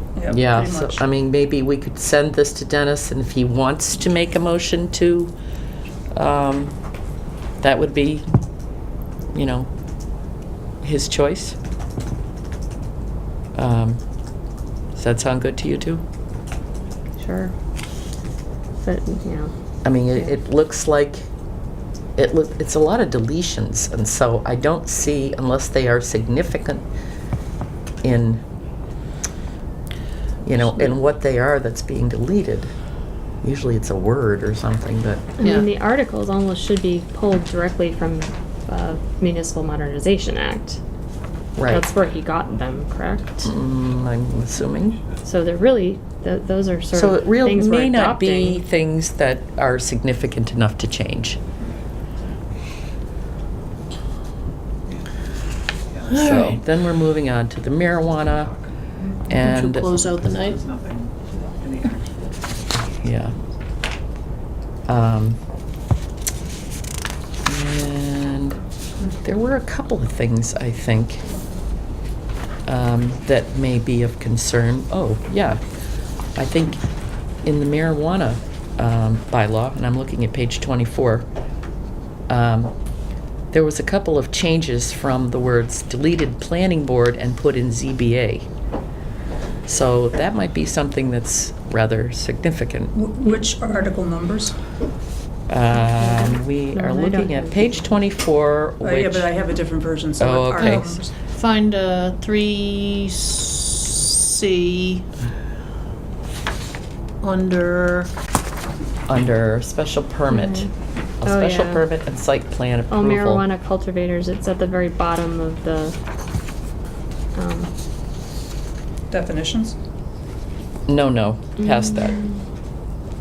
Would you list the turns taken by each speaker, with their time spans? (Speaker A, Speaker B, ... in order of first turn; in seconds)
Speaker A: 0.1-1.0, 92.9-94.5, 98.8-101.1, 119.1-119.8
Speaker B: 0.3-5.3, 6.1-6.7, 7.6-8.2, 9.3-9.7, 10.8-11.6, 13.5-14.0, 14.9-16.0, 19.8-21.3, 22.2-26.8, 28.0-28.4, 30.4-32.7, 33.4-35.3, 41.5-41.9, 43.4-45.0, 46.9-51.4, 56.1-58.5, 59.3-59.9, 62.9-63.4, 64.8-65.4, 67.5-68.6, 69.2-71.2, 72.7-75.6, 76.3-76.8, 77.4-81.2, 82.3-82.7, 83.5-88.5, 89.7-92.9, 95.5-99.3, 100.2-101.0, 109.1-110.7, 111.2-113.4, 120.9-122.2
Speaker C: 17.2-17.5, 18.8-19.5, 35.4-40.8, 41.6-43.5, 45.2-48.6, 95.7-97.9, 110.3-110.7, 111.2-111.8, 112.9-116.0, 117.3-117.7, 121.6-122.4
Speaker D: 35.4-35.7, 56.1-56.6, 59.3-60.6, 101.3-105.0, 107.2-108.1
Speaker E: 55.9-56.5, 58.2-58.6, 59.8-62.4